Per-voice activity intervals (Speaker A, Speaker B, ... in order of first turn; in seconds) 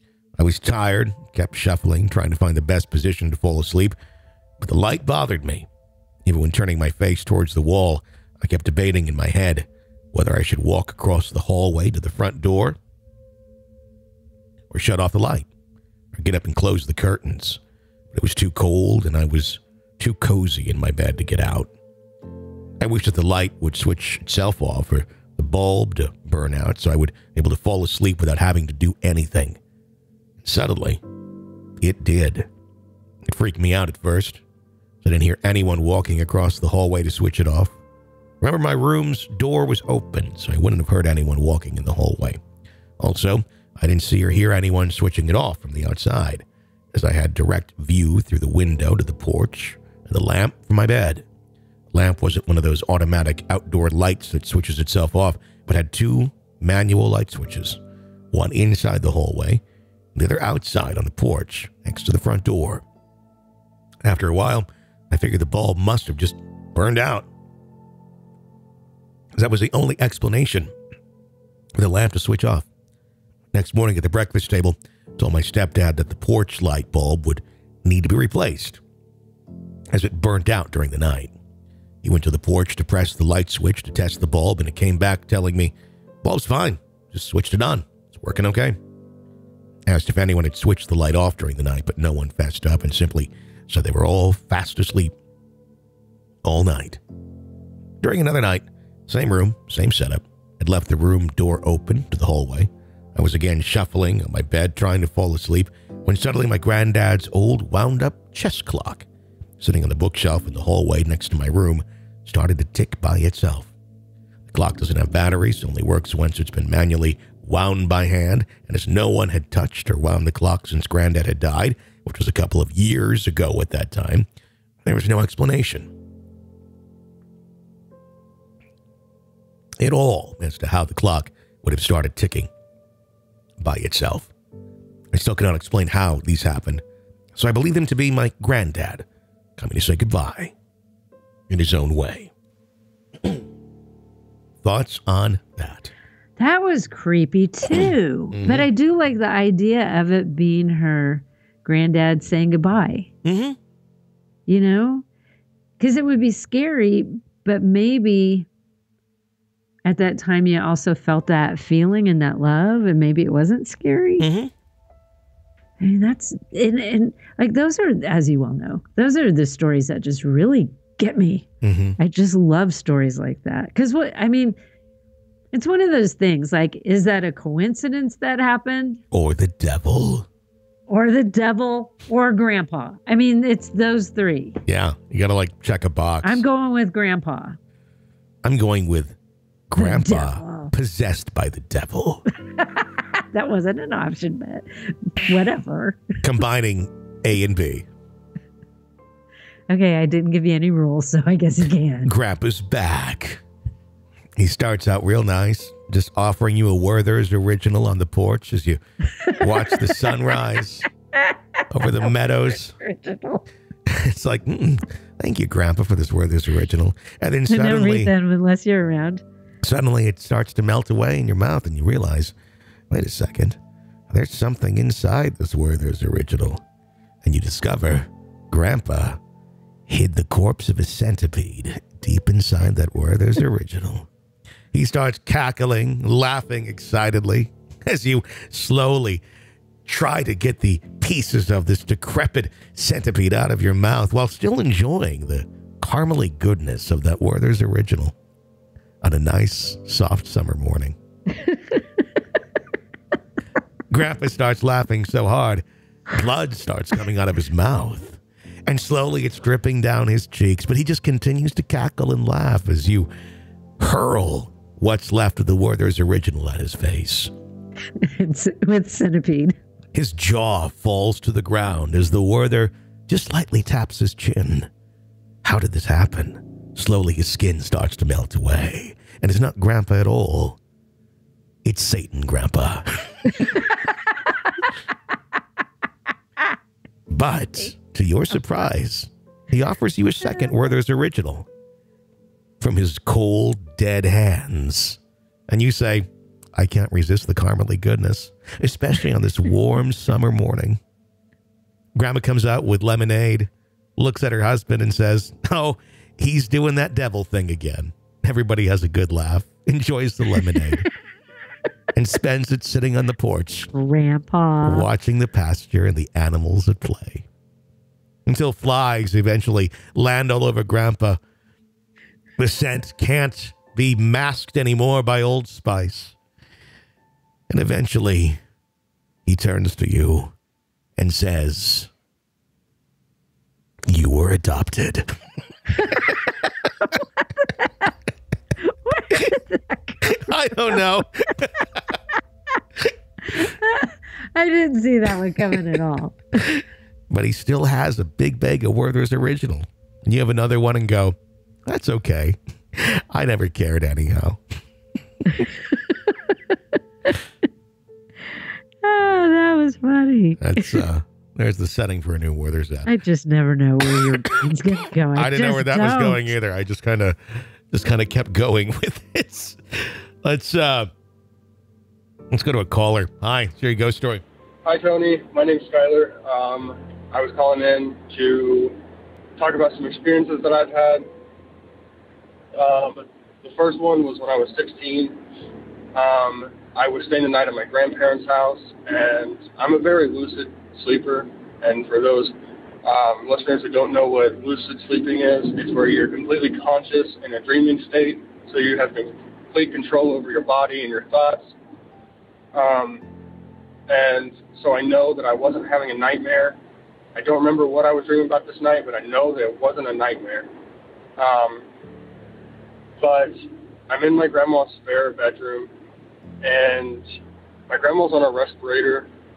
Speaker A: 0.4-4.0, 4.6-5.7, 6.2-12.8, 14.7-15.5, 16.1-17.6, 18.1-21.7, 22.8-29.6, 30.4-31.0, 31.8-32.5, 33.3-34.4, 35.0-37.8, 38.4-42.4, 43.0-51.2, 51.9-57.8, 58.3-59.6, 60.1-62.8, 64.0-67.2, 69.3-70.7, 71.8-72.7, 73.5-78.8, 79.9-81.3, 82.0-85.7, 86.2-88.8, 89.9-95.1, 96.4-97.0, 98.0-109.0, 109.6-113.7, 114.5-124.3, 124.8-125.9, 129.8-132.5, 133.6-134.3, 135.1-136.8, 137.4-139.0, 139.6-140.5, 141.5-142.3, 144.6-145.9, 147.7-148.7, 153.2-153.6, 164.2-164.5, 171.6-172.0, 179.1-180.3, 184.7-186.4, 188.4-189.2, 189.7-192.3, 196.2-197.9, 202.1-203.4, 204.4-208.8, 209.3-210.9, 211.7-212.8, 213.9-218.1, 219.6-222.3, 222.9-223.6, 224.1-226.6, 227.2-229.2, 229.9-234.1, 234.7-239.2, 239.9-248.1, 249.0-250.9, 253.9-263.1, 263.8-267.3, 269.9-274.7, 275.4-280.6, 281.6-283.6, 287.1-291.5, 292.6-300.8, 302.0-310.9, 311.9-313.7, 314.6-317.3, 318.3-321.2, 322.4-326.1, 327.5-328.4, 329.3-330.3, 331.0-331.9, 333.9-335.1, 340.1-341.6, 347.1-354.4, 360.4-362.9, 365.1-370.9, 372.3-374.2
Speaker B: 146.4-153.1, 154.5-155.0, 155.8-158.5, 159.8-164.3, 165.8-171.5, 172.0-174.6, 175.5-179.0, 180.9-184.6, 186.2-187.6, 189.8-190.7, 192.6-196.1, 199.7-202.1, 212.8-213.4, 217.5-219.2, 268.0-269.6, 313.7-314.9, 335.9-336.1, 336.8-337.9, 338.6-340.3, 343.3-346.2, 355.4-356.3, 358.8-360.8, 362.9-366.3
Speaker C: 374.6-378.8, 379.4-381.1, 382.5-385.2, 385.9-401.6, 402.5-403.1, 403.9-406.6, 407.1-410.5, 411.2-411.7, 413.0-415.7, 416.4-417.1, 417.7-419.1